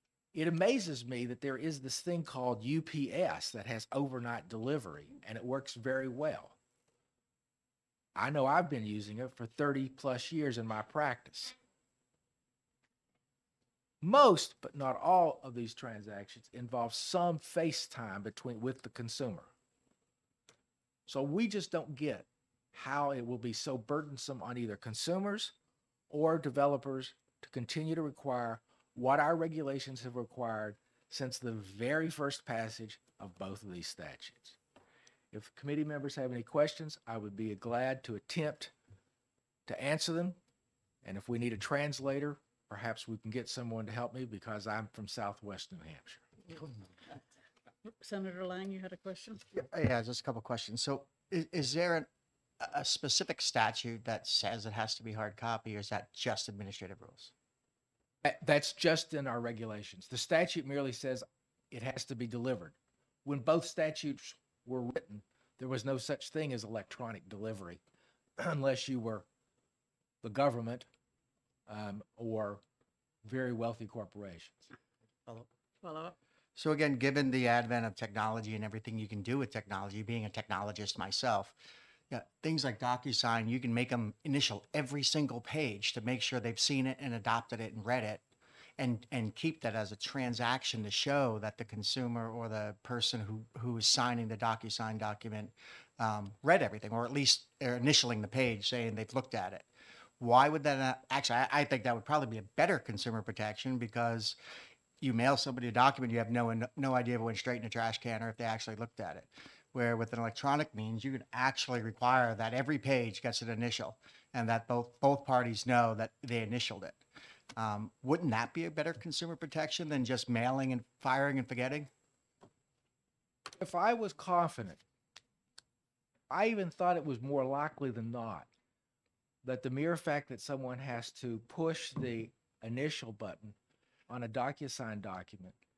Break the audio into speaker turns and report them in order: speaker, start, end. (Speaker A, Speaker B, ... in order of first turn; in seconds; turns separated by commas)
Speaker A: 0.3-6.5, Speaker A: 8.2-11.6, Speaker A: 14.0-19.5, Speaker A: 21.1-25.5, Speaker A: 26.1-34.6, Speaker A: 35.3-38.7, Speaker A: 39.7-40.4, Speaker A: 41.0-46.3, Speaker B: 47.9-49.4, Speaker C: 49.5-52.1, Speaker C: 52.6-57.3, Speaker A: 58.2-67.8, Speaker A: 68.4-69.2, Speaker A: 70.2-70.9, Speaker A: 71.7-72.6, Speaker A: 73.2-74.6, Speaker B: 75.3-76.2, Speaker C: 76.6-81.6, Speaker C: 82.1-88.2, Speaker C: 88.8-99.7, Speaker C: 100.2-104.4, Speaker C: 105.0-117.0, Speaker C: 117.6-121.9, Speaker A: 123.6-124.8, Speaker A: 126.3-128.5, Speaker A: 129.4-133.6, Speaker A: 134.1-135.6